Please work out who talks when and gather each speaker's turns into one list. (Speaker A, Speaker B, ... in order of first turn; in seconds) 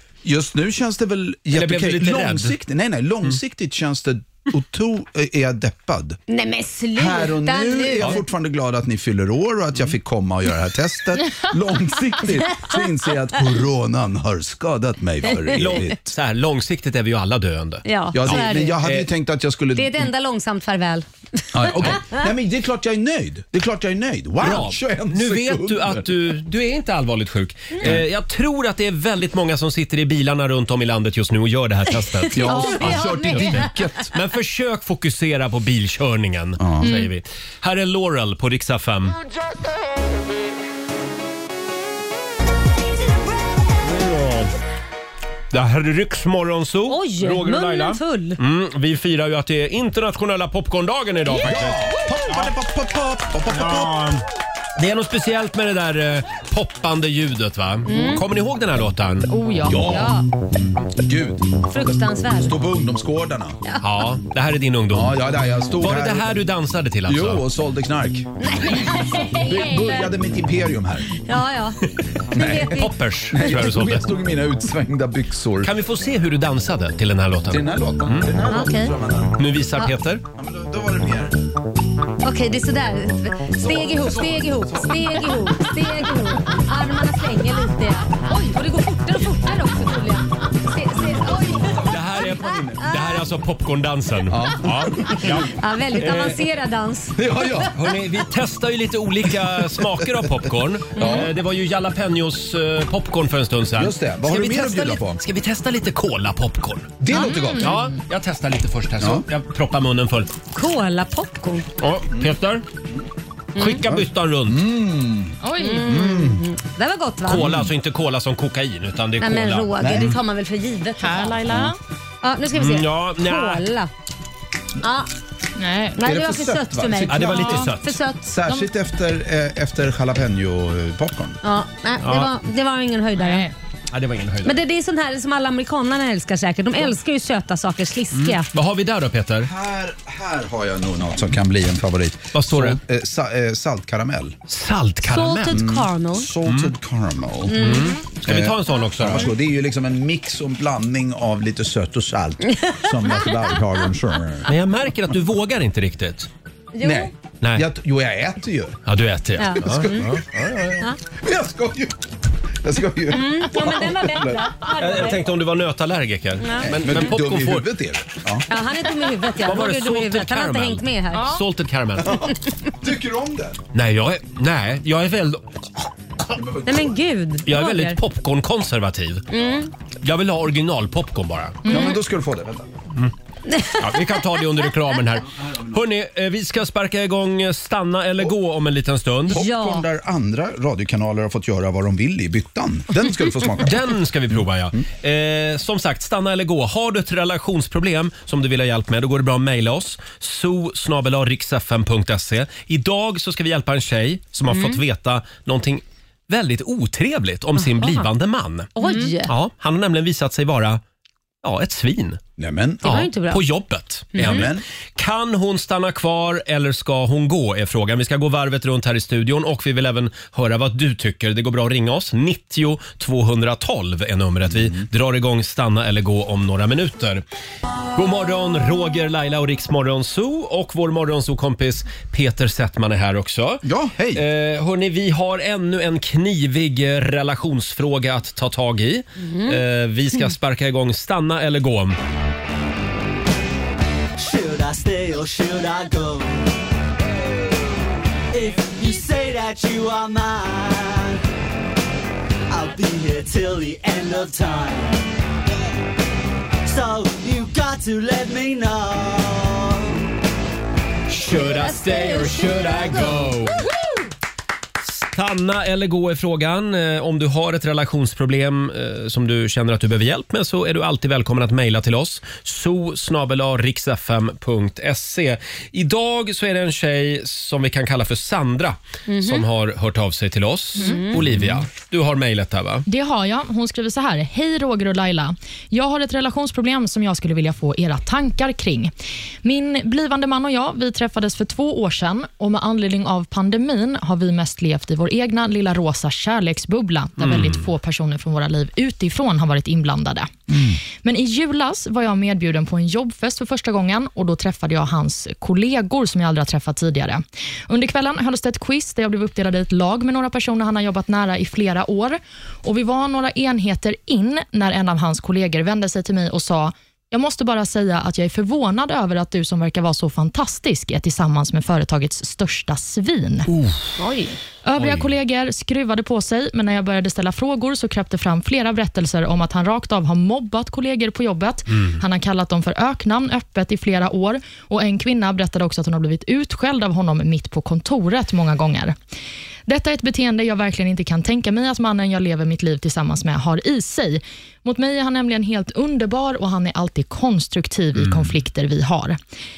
Speaker A: 0.2-6.2, 7.0-16.1, 18.1-20.1, 21.5-26.3, 32.3-34.1, 36.6-36.9, 51.4-54.0, 59.6-63.6, 64.9-66.4, 67.0-71.2, 72.3-75.7, 77.5-79.6, 80.3-81.4, 83.5-85.7, 90.8-92.1, 94.3-95.4, 97.2-97.7, 99.6-100.3, 101.0-101.3, 103.8-105.2, 107.0-107.7, 109.0-109.2, 112.1-112.3, 113.8-116.4, 117.4-117.7, 119.8-120.2, 126.0-131.4, 139.4-144.4, 145.5-147.6, 148.2-154.5, 156.8-158.8, 159.6-162.0, 162.6-164.6, 166.6-168.5, 172.0-173.6, 176.3-177.0, 181.7-182.7, 185.2-185.8, 189.3-193.9, 212.4-213.0, 214.2-214.6, 224.5-224.9, 233.6-234.2, 281.3-281.6, 300.5-300.8
Speaker B: 1.5-2.5, 15.5-19.1, 24.4-39.1, 43.8-44.5, 45.5-52.5, 53.5-54.2, 54.8-59.3, 63.8-65.2, 65.8-67.4, 72.5-74.1, 75.6-78.2, 79.4-80.2, 91.8-96.4, 97.7-107.0, 107.6-110.3, 111.8-112.6, 113.6-114.6, 117.2-119.7, 122.5-123.7, 127.1-128.0, 132.0-132.3, 133.9-134.6, 138.1-139.5, 142.3-142.8, 144.5-145.6, 146.4-146.7, 147.6-149.3, 154.5-156.3, 158.8-160.8, 164.7-167.7, 169.3-172.2, 173.7-175.5, 177.4-179.3, 180.0-181.7, 183.8-189.4, 193.6-210.8, 211.4-212.2, 212.8-227.2, 227.9-242.0, 261.1-263.6, 264.8-282.9, 297.2-297.6, 323.5-323.8, 324.8-325.1, 347.9-348.3
Speaker C: 6.3-8.2, 15.3-15.8, 17.8-18.8, 19.7-22.2, 32.2-33.7, 46.9-48.4, 57.9-58.2, 59.8-60.2, 61.7-62.5, 68.4-70.0, 71.1-71.8, 72.3-72.9, 78.5-78.9, 82.2-93.1, 95.2-97.3, 101.0-101.3, 110.5-111.7, 113.5-113.8, 115.6-117.4, 119.2-121.6, 122.2-123.9, 124.8-125.1, 126.0-128.2, 131.4-133.5, 134.4-138.5, 145.0-146.3, 147.5-147.9, 152.6-153.2, 156.7-157.1, 159.4-160.2, 163.1-165.3, 166.4-167.0, 168.5-171.4, 176.6-178.0, 179.3-179.7, 183.5-184.4, 189.3-189.8, 204.5-204.8, 208.8-209.3, 212.8-213.4, 214.1-214.5, 239.2-239.6, 261.3-263.4, 279.1-279.4, 280.8-281.2, 324.0-324.4
Speaker D: 59.3-59.8, 107.1-107.8, 115.4-116.1, 121.0-121.8, 125.6-126.0, 133.2-133.5, 181.7-182.0, 282.9-288.9, 289.4-300.3, 300.9-323.5, 324.6-338.9, 339.7-349.2
Speaker E: 244.2-246.5, 248.3-251.2, 252.5-255.1, 256.6-260.0